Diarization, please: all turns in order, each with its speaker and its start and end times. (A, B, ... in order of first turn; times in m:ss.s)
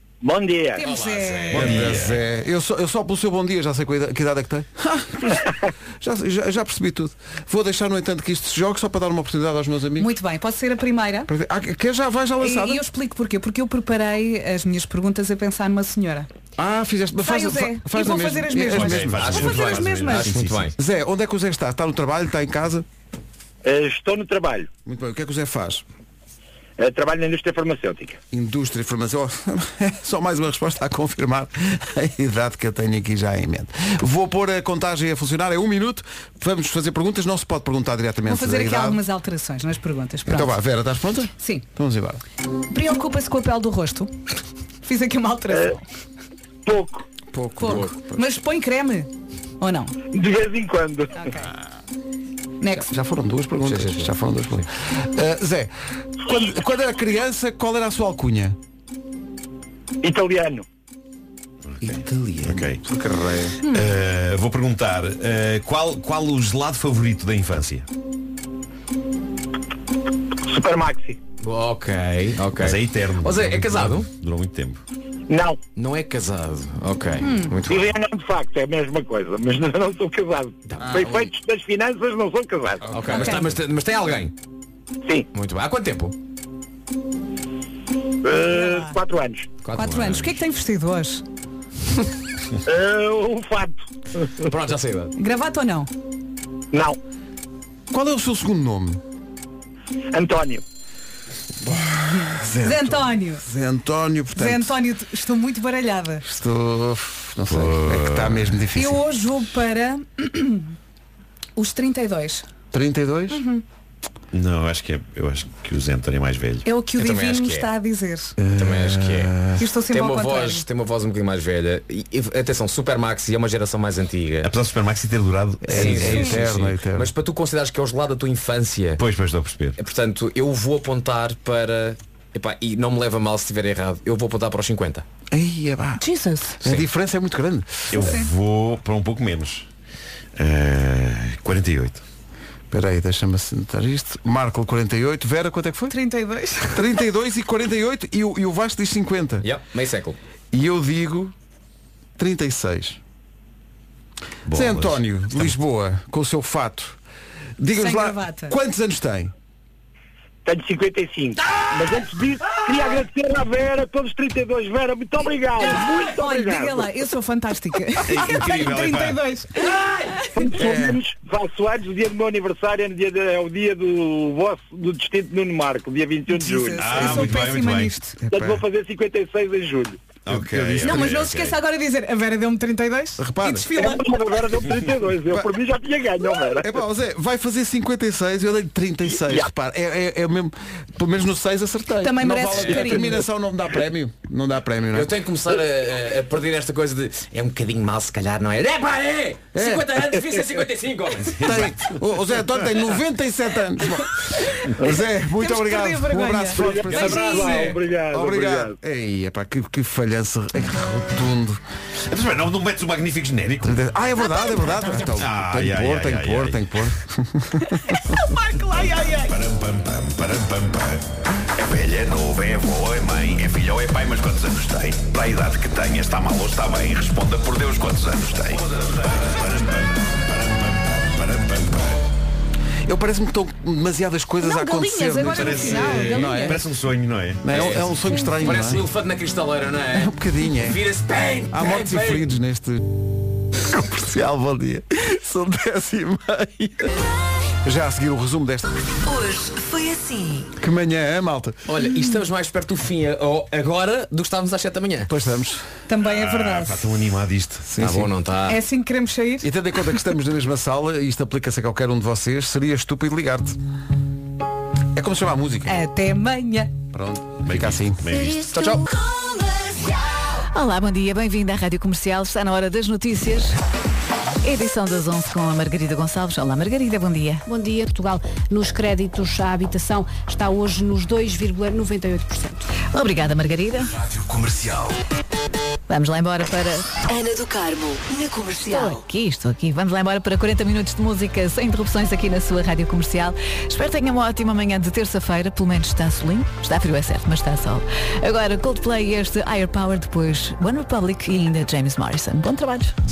0:00.2-0:00.9 A
0:00.8-0:01.8 B
0:00.8-0:02.1 C
0:01.5-0:02.2 D
0:01.5-0:05.5 E
0:06.0-0:10.1 E
0:10.0-0:11.3 B
0:11.3-0:12.8 E
0:12.4-0:16.3 B
0:16.6-0:19.3 E
0:17.2-0:20.4 B
0:18.7-0:20.7 D
0:18.9-0:20.8 C
0:20.8-0:22.9 E
0:23.6-0:24.7 A
0:24.9-0:25.8 E
0:26.8-0:28.2 A
0:28.3-0:39.0 E
0:38.3-0:40.5 B
0:40.3-0:42.2 E
0:41.4-0:41.6 B
0:42.7-0:44.2 B
0:44.8-0:45.8 B
0:45.5-0:45.8 A
0:46.6-0:47.1 A
0:47.3-0:48.3 E
0:47.6-0:49.1 B
0:49.6-0:50.0 B
0:50.1-0:51.2 A
0:51.2-0:51.5 B
0:52.6-0:52.9 B
0:52.8-0:58.6 E
0:53.6-0:54.1 C
1:00.0-1:00.6 A
1:01.7-1:02.8 D
1:01.8-1:03.6 E
1:03.6-1:07.9 D
1:10.4-1:11.2 A
1:11.4-1:14.1 C
1:12.6-1:14.8 D
1:15.3-1:15.6 A
1:15.8-1:18.0 C
1:17.2-1:17.6 B
1:17.6-1:22.9 A
1:20.7-1:21.3 C
1:22.9-1:24.3 C
1:22.9-1:23.3 E
1:23.1-1:23.5 B
1:25.3-1:26.2 C
1:28.2-1:29.5 A
1:28.5-1:28.9 B
1:29.6-1:30.4 C
1:29.7-1:31.2 B
1:32.6-1:33.8 A
1:34.4-1:35.1 C
1:35.2-1:35.9 B
1:36.7-1:37.0 A
1:37.9-1:39.0 E
1:40.1-1:40.6 A
1:41.6-1:44.8 E
1:42.6-1:43.4 B
1:44.4-1:46.2 B
1:46.2-1:49.0 E
1:47.5-1:48.6 D
1:48.8-1:50.7 B
1:51.6-1:52.4 B
1:52.7-1:53.4 E
1:53.3-1:53.6 B
1:54.3-1:56.7 D
1:56.6-1:58.4 B
1:57.0-1:57.7 C
1:58.4-1:59.6 E
1:58.6-1:59.4 C
1:59.6-2:00.6 B
1:59.9-2:04.5 C
2:04.4-2:06.4 D
2:05.6-2:07.1 E
2:05.7-2:09.0 C
2:09.0-2:09.8 D
2:09.8-2:15.0 C
2:15.3-2:16.0 E
2:16.0-2:16.6 B
2:16.6-2:18.2 E
2:17.9-2:19.7 D
2:18.0-2:18.3 B
2:20.4-2:22.0 D
2:22.7-2:25.9 E
2:25.9-2:26.8 B
2:26.7-2:29.5 E
2:29.4-2:30.2 C
2:30.5-2:31.3 E
2:32.2-2:33.0 E
2:34.5-2:35.6 D
2:34.5-2:37.0 E
2:37.6-2:39.3 E
2:37.8-2:38.6 B
2:40.4-2:46.9 A
2:45.6-2:49.9 B
2:48.1-2:49.2 D
2:50.3-2:56.9 A
2:50.6-2:51.0 E
2:56.3-2:58.2 B
2:56.8-2:58.0 D
2:57.0-2:57.6 E
2:58.2-2:58.6 E
2:58.3-3:00.2 A
3:00.3-3:01.6 D
3:00.8-3:04.0 B
3:03.2-3:03.7 E
3:03.8-3:06.7 A
3:06.4-3:15.1 E
3:09.1-3:09.5 A
3:12.0-3:13.2 B
3:14.9-3:21.8 C
3:19.6-3:20.0 E
3:21.2-3:21.8 D
3:21.4-3:31.6 E
3:25.4-3:27.8 B
3:26.6-3:28.8 A
3:32.1-3:33.8 D
3:33.6-3:38.0 E
3:34.3-3:35.0 B
3:35.2-3:36.6 D
3:38.2-3:39.4 B
3:39.2-3:41.0 D
3:41.6-3:52.0 D
3:52.8-3:56.7 E
3:54.4-3:56.6 B
3:55.2-3:57.8 D
3:57.4-3:58.8 E
3:57.5-4:02.3 C
3:59.9-4:00.8 E
4:01.5-4:02.8 E
4:03.6-4:06.9 E
4:07.6-4:08.7 E
4:09.0-4:10.5 F
4:10.6-4:11.6 E
4:11.7-4:15.1 C
4:15.1-4:15.7 E
4:15.9-4:17.0 B
4:16.0-4:17.7 D
4:17.7-4:18.1 E
4:17.8-4:18.6 C
4:18.5-4:19.5 B
4:19.4-4:23.6 E
4:24.9-4:25.8 E
4:25.7-4:26.7 B
4:26.9-4:28.1 E
4:27.4-4:28.5 D
4:28.5-4:28.8 C
4:30.5-4:33.6 G
4:34.4-4:37.4 G
4:37.5-4:42.7 H
4:42.9-4:44.0 G
4:44.4-4:44.7 E
4:45.9-4:46.9 G
4:47.0-4:49.1 F
4:48.6-5:02.9 G